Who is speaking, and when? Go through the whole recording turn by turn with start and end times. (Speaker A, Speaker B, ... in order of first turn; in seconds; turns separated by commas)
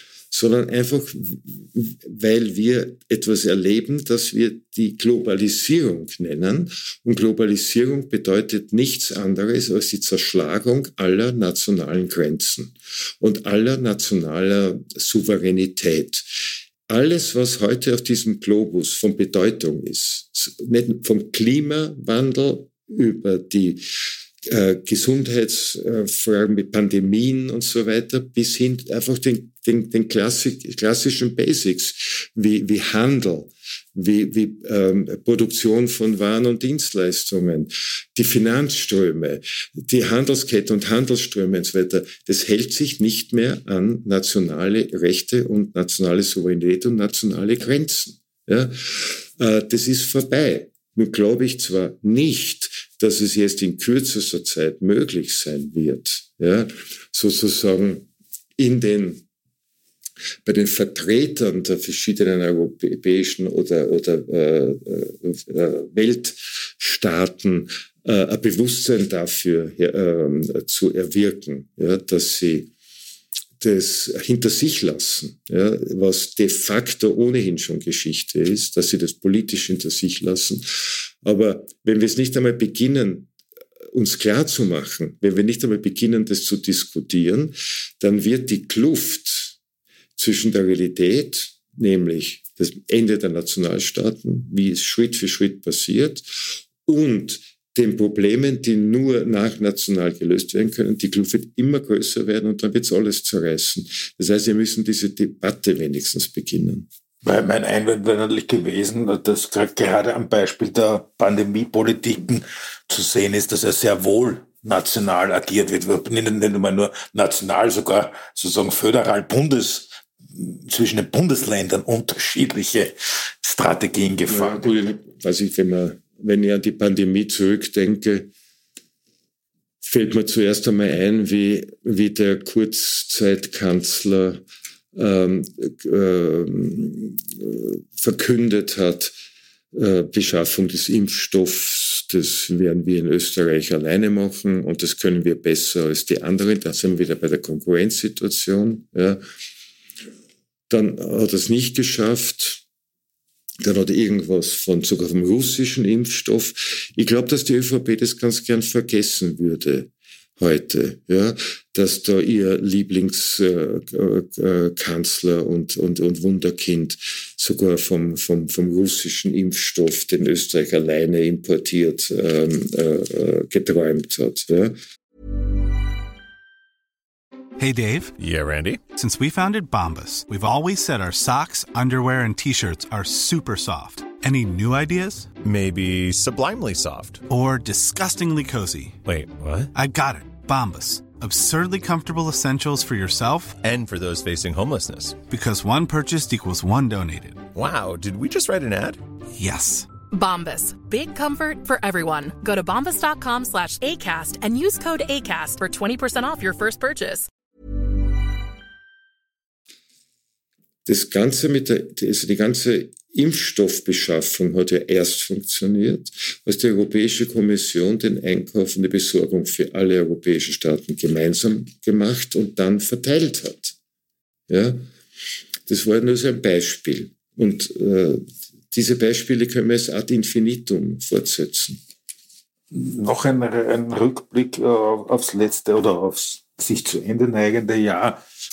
Speaker A: 0.3-58.1, Speaker A: 58.6-59.2, Speaker A: 60.5-72.7, Speaker A: 73.6-83.3, Speaker A: 83.9-89.6, Speaker A: 90.2-106.9, Speaker B: 107.2-124.7, Speaker A: 124.3-128.3, Speaker A: 129.8-134.4, Speaker A: 134.9-139.1, Speaker A: 139.7-149.2, Speaker A: 150.7-152.6, Speaker A: 153.6-174.8, Speaker C: 177.6-178.2, Speaker D: 178.2-178.9, Speaker C: 178.9-185.4, Speaker D: 185.4-187.3, Speaker C: 187.3-189.0, Speaker D: 189.1-189.7, Speaker C: 189.7-193.6, Speaker D: 193.6-195.3, Speaker C: 195.3-197.4, Speaker D: 197.5-199.0, Speaker C: 199.4-199.9, Speaker E: 200.1-207.3, Speaker A: 210.9-223.8, Speaker A: 224.5-224.9, Speaker A: 225.7-231.8, Speaker B: 232.7-238.2